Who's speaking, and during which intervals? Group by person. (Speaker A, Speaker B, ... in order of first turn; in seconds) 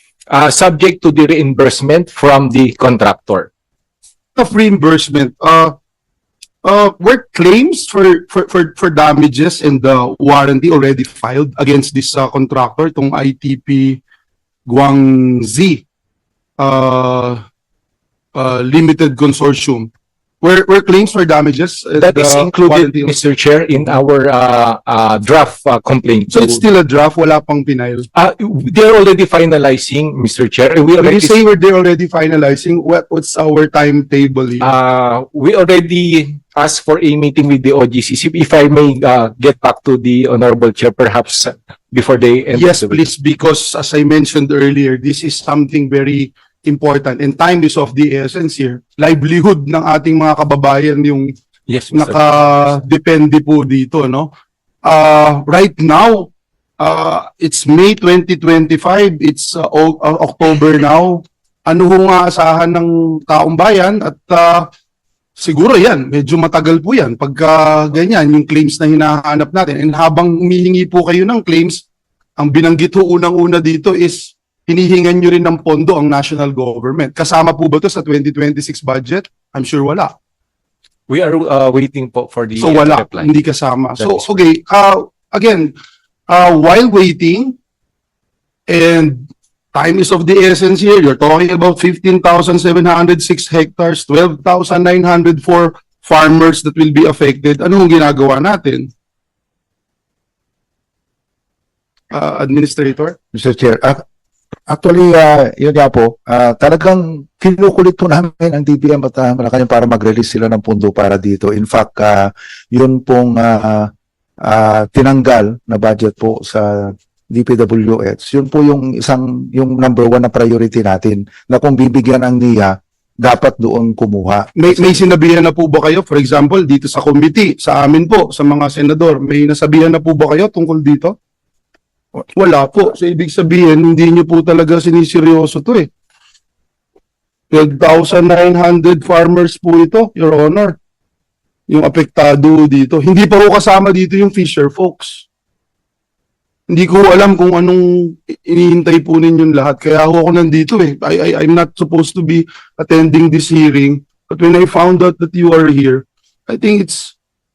Speaker A: 0.3-3.5, 22.0-26.6, 28.1-31.4, 34.6-43.0, 51.7-52.3, 81.1-83.3
Speaker B: 4.4-5.7, 6.6-14.0, 14.7-15.8, 16.6-17.4, 18.4-19.9, 20.4-23.2, 26.3-28.1, 31.0-34.7, 42.5-51.3, 51.9-54.3, 54.9-64.7, 65.4-71.8, 72.4-80.1, 82.6-85.7, 86.3-87.5, 88.7-98.9, 102.1-103.2, 124.6-131.2, 132.3-135.9, 137.5-140.8, 141.7-145.2, 146.7-157.2
Speaker C: 103.3-104.0, 104.7-113.9, 114.4-125.0